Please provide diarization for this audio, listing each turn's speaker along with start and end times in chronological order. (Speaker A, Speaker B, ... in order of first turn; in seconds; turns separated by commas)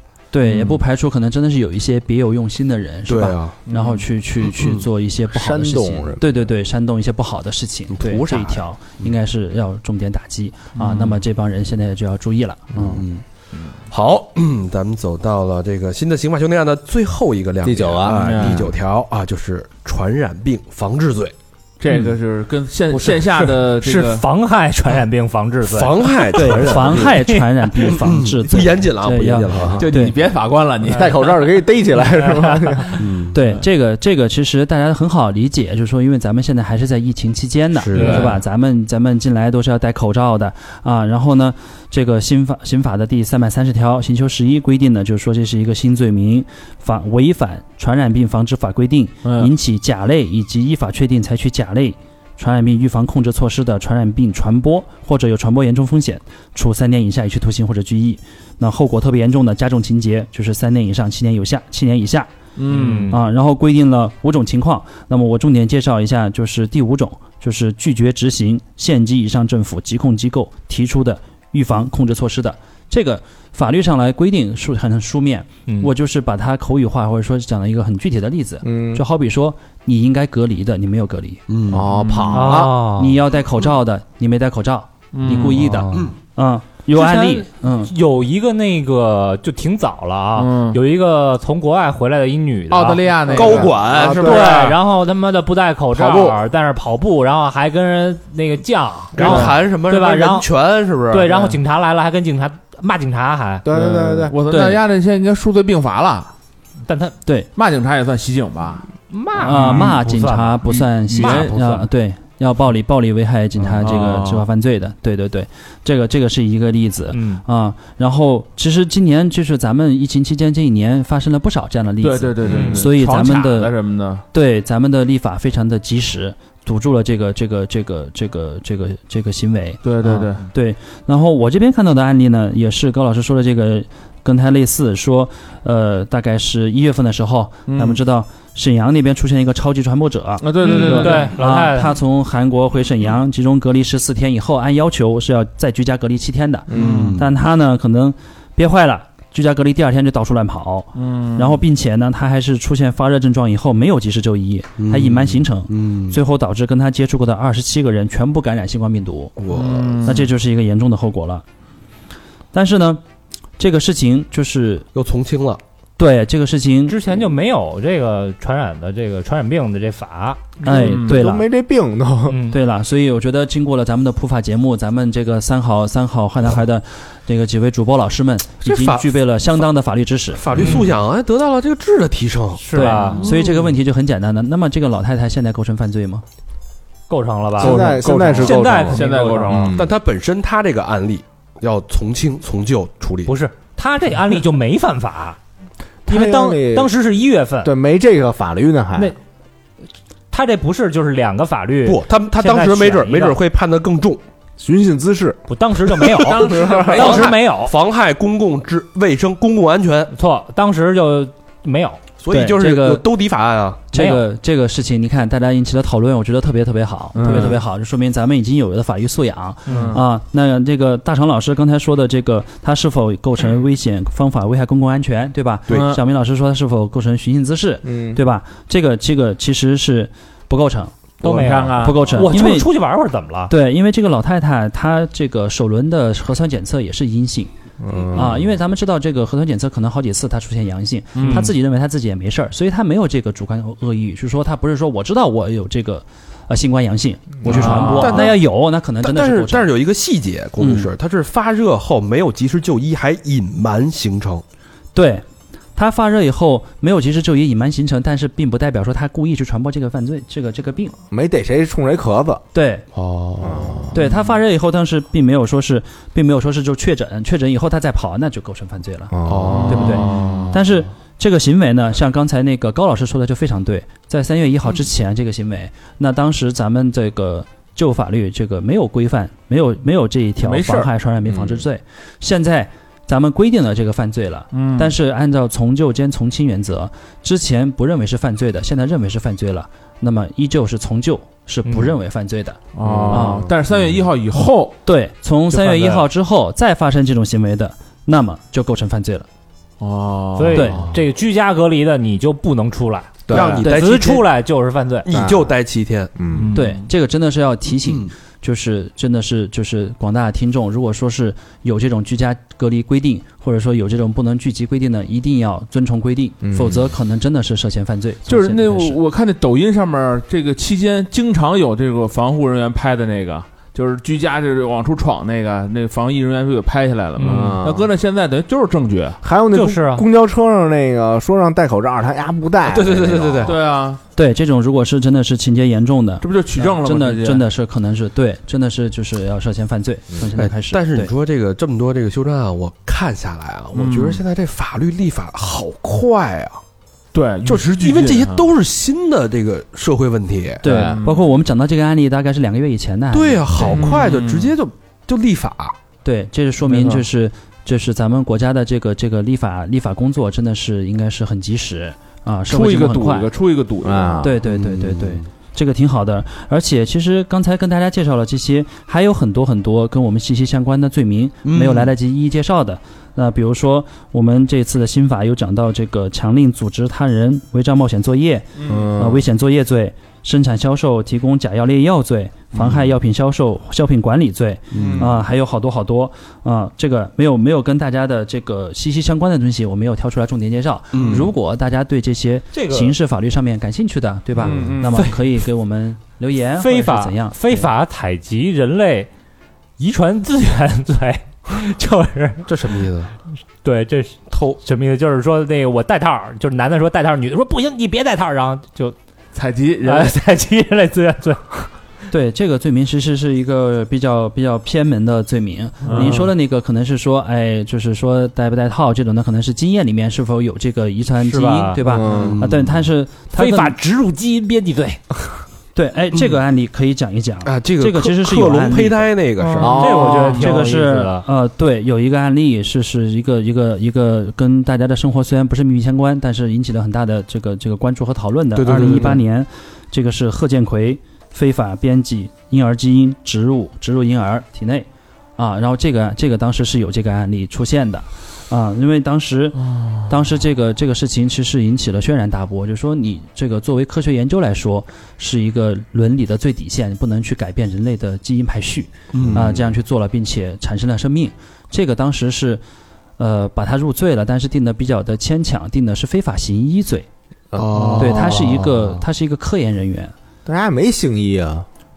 Speaker A: 0.3-13.0, Speaker B: 3.1-3.6, Speaker B: 4.6-4.8, Speaker C: 5.3-6.2, Speaker B: 7.9-9.1, Speaker D: 10.8-11.2, Speaker B: 12.9-13.2, Speaker B: 13.9-21.3, Speaker C: 17.6-18.7, Speaker D: 18.1-18.7, Speaker D: 21.8-24.2, Speaker E: 23.8-27.5, Speaker B: 25.6-27.1, Speaker A: 26.3-30.1, Speaker C: 26.6-27.1, Speaker B: 27.8-29.9, Speaker C: 29.5-29.8, Speaker D: 29.8-31.5, Speaker C: 30.9-33.0, Speaker E: 32.2-33.0, Speaker B: 33.0-33.4, Speaker A: 33.3-62.3, Speaker B: 37.8-38.4, Speaker C: 37.9-38.3, Speaker E: 38.0-38.3, Speaker D: 49.2-49.5, Speaker D: 62.6-63.1, Speaker E: 62.7-63.2, Speaker A: 63.1-81.4, Speaker E: 75.7-75.9, Speaker C: 78.6-79.0, Speaker B: 81.5-81.9, Speaker C: 81.7-82.8, Speaker D: 81.9-82.3, Speaker E: 82.3-83.2, Speaker A: 82.5-87.9, Speaker D: 85.1-85.9, Speaker E: 86.9-93.6, Speaker D: 90.3-90.8, Speaker D: 92.7-93.7, Speaker B: 93.3-94.7, Speaker C: 93.3-94.7, Speaker E: 94.2-100.5, Speaker B: 99.1-101.5, Speaker D: 99.2-99.5, Speaker E: 101.1-103.6, Speaker C: 103.6-104.3, Speaker D: 103.7-106.3, Speaker A: 104.5-104.8, Speaker E: 106.9-107.2, Speaker D: 107.5-108.9, Speaker E: 109.1-111.8, Speaker A: 109.4-123.7, Speaker D: 109.4-110.0, Speaker D: 110.7-111.8, Speaker D: 113.6-114.5, Speaker E: 117.1-117.4, Speaker D: 122.0-124.2, Speaker E: 122.4-122.9, Speaker A: 124.3-159.4, Speaker D: 129.8-130.4, Speaker D: 137.7-138.0, Speaker D: 140.4-141.3, Speaker E: 140.6-142.0, Speaker C: 146.7-147.1, Speaker D: 146.7-147.2, Speaker B: 146.7-147.3, Speaker D: 150.9-151.6, Speaker B: 154.8-156.2, Speaker B: 159.4-160.2, Speaker D: 159.5-160.3, Speaker A: 160.0-161.4, Speaker A: 162.5-163.0, Speaker A: 163.6-164.8, Speaker B: 164.9-165.6, Speaker A: 166.0-167.0, Speaker E: 166.9-170.6, Speaker C: 170.6-172.4, Speaker A: 170.6-171.4, Speaker D: 170.7-171.2, Speaker E: 172.3-172.6, Speaker A: 172.5-180.7, Speaker B: 178.6-179.1, Speaker B: 180.3-183.7, Speaker E: 180.6-180.9, Speaker E: 182.6-183.3, Speaker A: 182.7-186.2, Speaker E: 187.1-189.7, Speaker D: 187.6-189.7, Speaker C: 187.6-189.9, Speaker B: 189.7-193.3, Speaker E: 193.2-195.4, Speaker C: 196.1-196.9, Speaker E: 196.1-197.7, Speaker C: 197.6-199.1, Speaker E: 200.3-203.4, Speaker B: 201.8-204.2, Speaker C: 204.6-205.4, Speaker E: 205.5-207.7, Speaker D: 206.2-207.3, Speaker C: 206.4-207.2, Speaker B: 206.9-210.1, Speaker E: 210.1-212.0, Speaker B: 212.2-213.9, Speaker A: 212.3-213.0, Speaker A: 213.9-231.0, Speaker E: 213.9-214.2, Speaker D: 217.2-217.6, Speaker E: 219.7-220.0, Speaker D: 219.7-220.0, Speaker D: 225.7-226.0, Speaker C: 227.8-228.2, Speaker D: 231.2-232.2, Speaker E: 231.2-233.5, Speaker A: 231.8-232.7, Speaker A: 233.5-237.5, Speaker C: 237.8-238.5, Speaker A: 238.1-249.7, Speaker D: 241.1-241.5, Speaker E: 241.2-241.5, Speaker C: 247.4-247.8, Speaker B: 247.4-248.4, Speaker D: 247.5-248.2, Speaker B: 249.0-254.4, Speaker A: 250.6-250.9, Speaker A: 254.9-255.2, Speaker A: 255.8-260.9, Speaker C: 261.1-262.4, Speaker A: 262.5-262.9, Speaker B: 262.9-263.9, Speaker C: 263.4-263.9, Speaker A: 263.9-269.1, Speaker C: 269.1-270.0, Speaker B: 269.2-270.5, Speaker D: 269.5-270.6, Speaker A: 269.7-293.5, Speaker D: 280.4-280.9, Speaker C: 281.3-281.6, Speaker D: 284.5-284.9, Speaker E: 291.6-291.9, Speaker D: 292.7-294.8, Speaker C: 292.8-293.5, Speaker A: 294.8-299.3, Speaker E: 295.5-296.0, Speaker D: 299.8-300.8, Speaker E: 300.4-305.1, Speaker A: 300.5-300.8, Speaker C: 303.3-303.7, Speaker B: 303.3-304.2, Speaker B: 305.0-306.1, Speaker C: 305.1-305.5, Speaker C: 306.1-306.5, Speaker D: 306.3-306.8, Speaker A: 306.5-319.0, Speaker B: 307.8-308.1, Speaker C: 316.4-316.9, Speaker D: 318.3-329.2, Speaker E: 327.2-327.6, Speaker C: 327.2-327.9, Speaker C: 329.2-333.6, Speaker E: 329.5-330.0, Speaker B: 332.6-333.6, Speaker D: 333.4-334.0, Speaker A: 334.1-341.1, Speaker D: 336.2-337.4, Speaker B: 340.4-346.6, Speaker D: 343.7-344.2, Speaker D: 347.1-348.5, Speaker B: 347.4-350.6, Speaker A: 350.6-354.0, Speaker C: 350.6-351.0, Speaker D: 350.7-351.2, Speaker B: 353.1-355.8, Speaker D: 353.6-354.5, Speaker A: 356.0-363.3, Speaker D: 356.7-357.0, Speaker D: 362.5-364.2, Speaker C: 363.8-364.3, Speaker A: 364.2-397.7, Speaker B: 364.4-365.3, Speaker B: 371.4-371.9, Speaker D: 378.6-378.9, Speaker C: 378.6-379.2, Speaker B: 384.7-385.1, Speaker D: 384.8-385.1, Speaker B: 390.9-391.3, Speaker E: 392.5-392.9, Speaker D: 394.4-395.1, Speaker B: 394.4-394.7, Speaker E: 396.6-399.1, Speaker E: 399.8-402.6, Speaker B: 402.4-403.1, Speaker E: 403.6-408.9, Speaker B: 404.3-404.6, Speaker D: 409.3-410.2, Speaker E: 409.8-411.7, Speaker A: 412.1-423.8, Speaker D: 415.8-416.2, Speaker C: 415.9-416.3, Speaker E: 421.2-421.8, Speaker C: 421.8-422.4, Speaker B: 422.1-422.8, Speaker E: 423.3-425.0, Speaker A: 425.7-429.1, Speaker B: 427.4-429.9, Speaker C: 429.6-430.5, Speaker E: 429.6-431.2, Speaker A: 430.1-462.6, Speaker B: 438.6-439.2, Speaker C: 438.7-439.2, Speaker D: 449.7-449.9, Speaker B: 459.1-459.6, Speaker C: 459.2-459.5, Speaker A: 463.2-467.1, Speaker C: 467.5-468.6, Speaker B: 467.5-469.0, Speaker D: 467.7-468.3, Speaker A: 468.0-470.1, Speaker C: 470.4-471.6